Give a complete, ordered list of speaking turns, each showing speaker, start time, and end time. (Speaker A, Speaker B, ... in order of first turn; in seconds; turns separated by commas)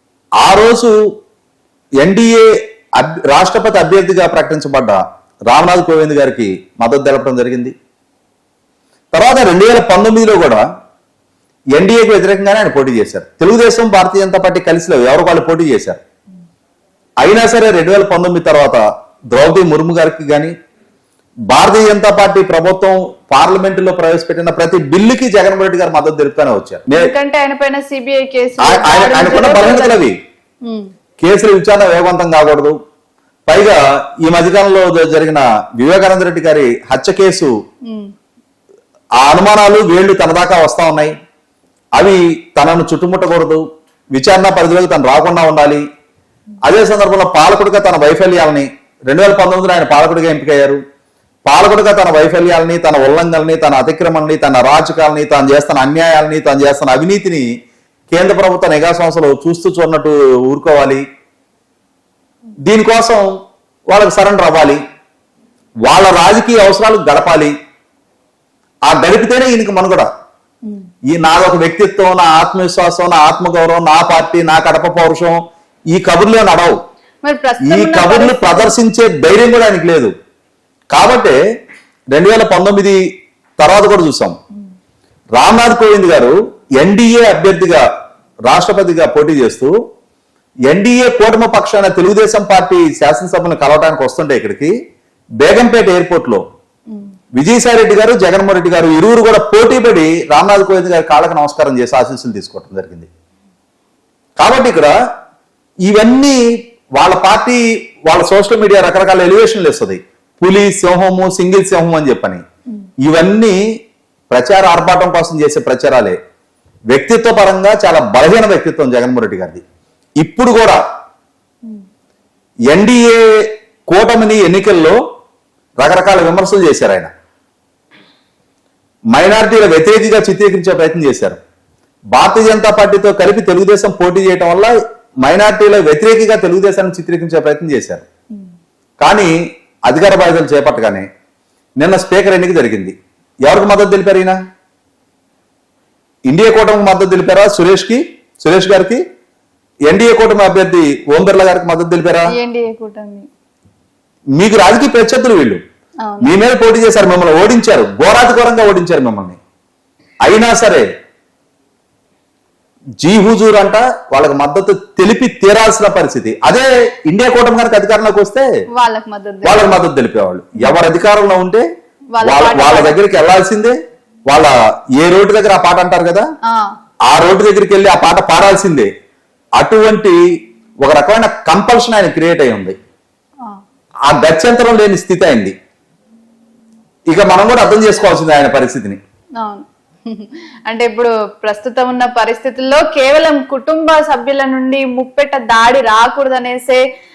Speaker A: 0.4-1.0, Speaker A: 2.0-7.7, Speaker A: 9.1-10.7, Speaker A: 11.8-16.0, Speaker A: 17.2-20.5, Speaker A: 21.5-27.1, Speaker B: 27.0-30.0, Speaker A: 28.6-30.2, Speaker B: 30.6-30.9, Speaker A: 31.2-32.8, Speaker A: 33.5-37.5, Speaker B: 37.9-38.1, Speaker A: 39.2-41.1, Speaker A: 42.0-43.6, Speaker A: 44.1-45.8, Speaker A: 46.6-50.8, Speaker A: 51.5-57.5, Speaker A: 58.1-61.0, Speaker A: 62.7-63.3, Speaker A: 63.9-64.8, Speaker A: 65.9-67.5, Speaker A: 68.9-70.1, Speaker A: 71.1-75.4, Speaker A: 75.9-76.8, Speaker B: 77.2-78.7, Speaker A: 77.7-80.1, Speaker A: 80.9-81.4, Speaker A: 82.1-83.0, Speaker A: 83.6-84.4, Speaker A: 85.4-87.8, Speaker A: 88.5-89.7, Speaker A: 90.7-94.7, Speaker A: 95.4-96.4, Speaker A: 97.4-103.1, Speaker A: 104.4-104.9, Speaker A: 105.9-106.4, Speaker A: 107.0-112.4, Speaker A: 113.0-113.6, Speaker A: 114.3-116.2, Speaker A: 116.9-119.6, Speaker A: 120.2-120.8, Speaker A: 122.7-123.2, Speaker A: 123.9-125.0, Speaker A: 125.8-127.1, Speaker A: 129.1-131.4, Speaker A: 132.1-138.1, Speaker A: 139.0-139.3, Speaker A: 139.9-141.1, Speaker A: 141.8-142.9, Speaker A: 143.5-144.4, Speaker A: 146.3-149.0, Speaker A: 149.9-152.3, Speaker B: 152.3-153.3, Speaker A: 154.4-155.6, Speaker B: 156.0-156.3, Speaker A: 156.2-159.4, Speaker A: 160.2-160.9, Speaker A: 163.0-168.5, Speaker B: 168.8-169.6, Speaker A: 169.4-171.7, Speaker B: 172.1-173.0, Speaker A: 172.2-173.8, Speaker A: 174.3-176.3, Speaker A: 177.1-178.9, Speaker A: 179.6-180.2, Speaker A: 180.8-182.8, Speaker A: 184.1-185.6, Speaker A: 187.1-189.0, Speaker B: 189.4-196.8